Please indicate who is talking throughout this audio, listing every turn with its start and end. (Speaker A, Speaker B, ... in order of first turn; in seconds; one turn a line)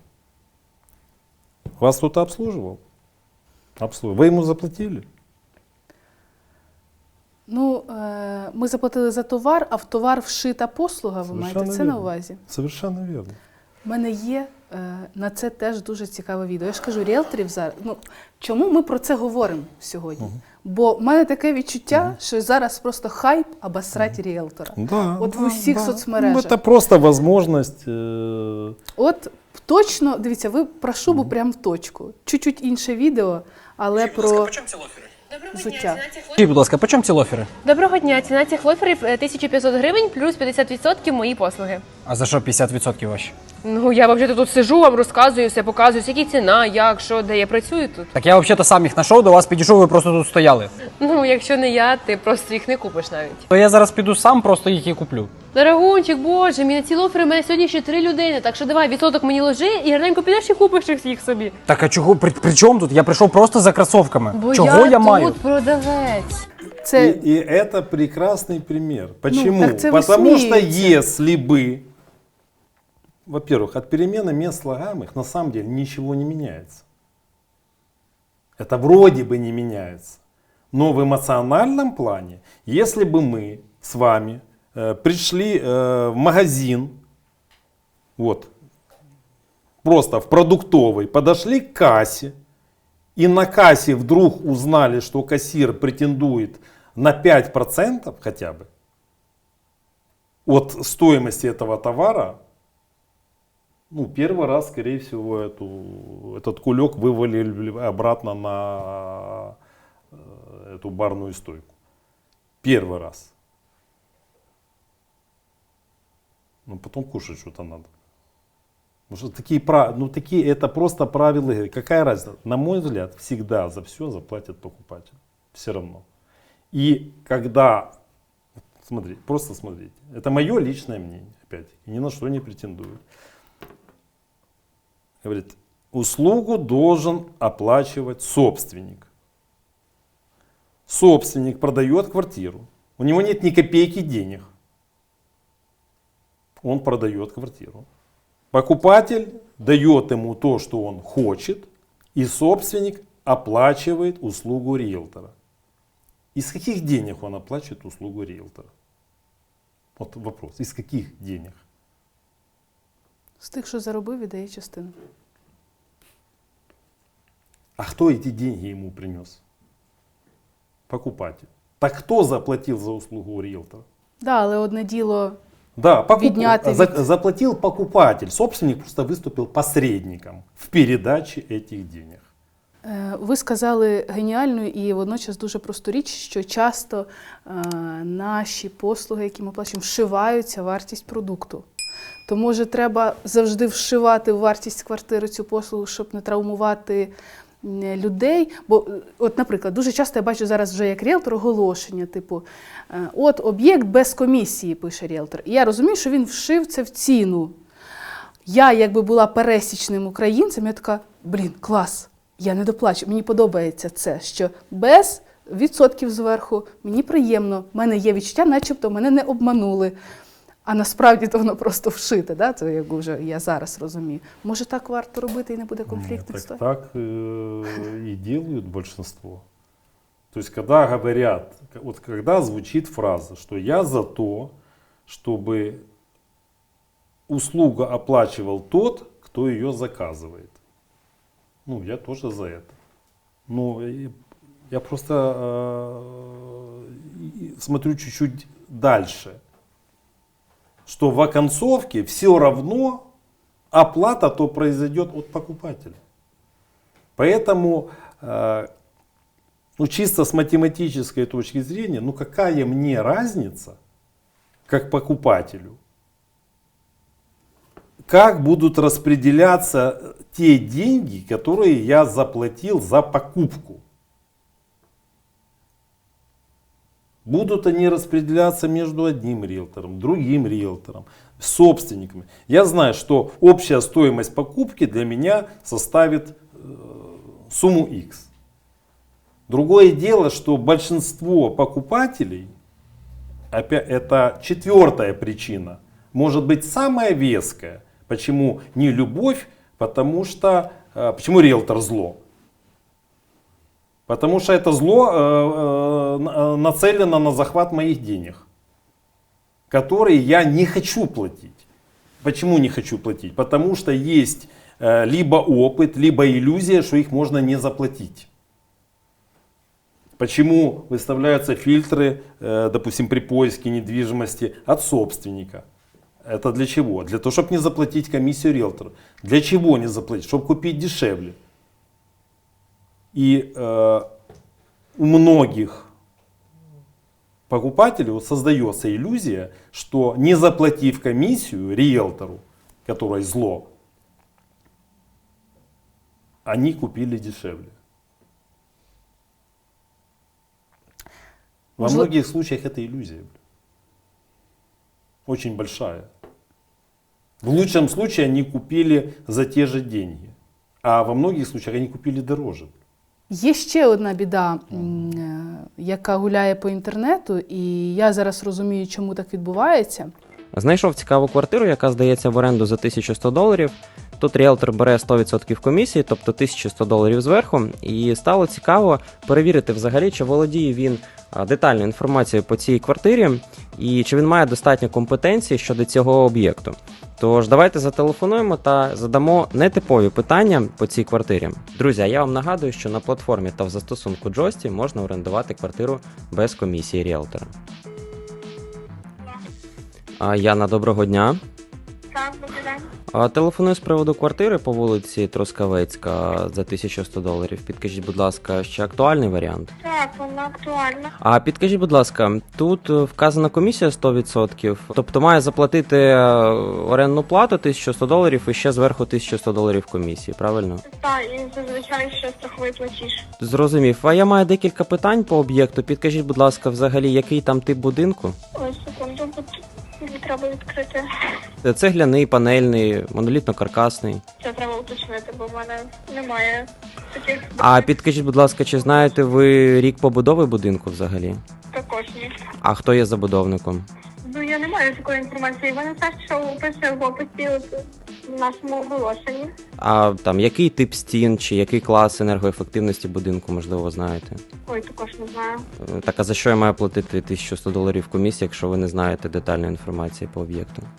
Speaker A: 1.8-2.8
Speaker A: 3.8-5.1
Speaker B: 7.5-12.4
Speaker A: 11.3-13.4
Speaker B: 13.8-26.6
Speaker A: 21.9-22.2
Speaker A: 24.7-28.8
Speaker B: 29.0-34.6
Speaker A: 31.1-31.3
Speaker C: 34.2-34.9
Speaker D: 35.3-36.4
Speaker B: 35.5-36.0
Speaker C: 36.4-37.5
Speaker D: 37.6-41.9
Speaker C: 42.0-43.3
Speaker D: 43.6-48.1
Speaker C: 48.1-50.7
Speaker D: 51.0-53.5
Speaker C: 53.5-55.3
Speaker D: 55.5-61.6
Speaker C: 61.7-65.4
Speaker D: 64.3-66.4
Speaker B: 64.4-65.2
Speaker B: 66.8-67.2
Speaker A: 66.9-71.9
Speaker B: 69.3-71.0
Speaker A: 73.3-76.8
Speaker A: 78.6-80.2
Speaker A: 80.7-87.0
Speaker A: 88.2-88.5
Speaker A: 89.8-92.4
Speaker A: 93.2-98.7
Speaker A: 100.5-102.4
Speaker A: 103.9-109.6
Speaker A: 110.1-111.7
Speaker A: 112.6-113.3
Speaker A: 116.7-117.9
Speaker A: 119.1-126.0
Speaker A: 126.7-127.9
Speaker A: 128.8-133.0
Speaker A: 135.2-139.1
Speaker A: 140.9-144.5
Speaker A: 146.6-147.9
Speaker A: 148.5-155.3
Speaker A: 156.3-158.7
Speaker A: 160.0-161.6
Speaker B: 163.4-164.9
Speaker A: 167.8-169.4
Speaker A: 170.9-173.8
Speaker B: 174.2-175.4
Speaker A: 175.8-182.3
Speaker B: 176.2-177.0
Speaker B: 182.8-191.7
Speaker B: 192.3-207.6
Speaker B: 208.5-219.9
Speaker B: 220.7-226.6
Speaker A: 225.9-229.4
Speaker A: 230.3-234.5
Speaker A: 235.1-235.8
Speaker A: 237.3-240.6
Speaker A: 241.7-242.8
Speaker A: 243.5-244.2
Speaker A: 244.7-249.4
Speaker A: 250.9-253.1
Speaker A: 253.7-256.0
Speaker A: 257.2-258.7
Speaker A: 259.8-263.8
Speaker A: 264.7-265.8
Speaker A: 268.1-273.8
Speaker A: 277.2-288.3
Speaker A: 289.5-292.5
Speaker A: 293.5-302.2
Speaker A: 304.1-308.4
Speaker A: 309.7-311.6
Speaker A: 312.2-318.3
Speaker A: 320.2-325.6
Speaker A: 326.2-331.4
Speaker A: 333.1-334.1
Speaker A: 335.0-335.9
Speaker A: 337.5-343.7
Speaker A: 346.4-347.8
Speaker B: 351.8-352.1
Speaker A: 351.8-353.4
Speaker A: 355.3-356.1
Speaker A: 357.4-362.7
Speaker B: 363.3-370.1
Speaker E: 370.5-397.5
Speaker E: 400.2-401.4
Speaker F: 402.1-402.9
Speaker E: 403.1-409.7
Speaker F: 409.8-411.1
Speaker E: 411.2-420.8
Speaker F: 420.8-423.3
Speaker E: 423.4-428.4
Speaker F: 428.6-431.1
Speaker E: 431.6-434.2
Speaker F: 434.4-437.9
Speaker E: 437.6-441.4
Speaker F: 441.7-442.3
Speaker E: 442.6-443.9
Speaker F: 444.3-447.7
Speaker F: 448.3-449.5
Speaker E: 449.8-454.4
Speaker F: 454.7-455.6
Speaker E: 455.8-460.9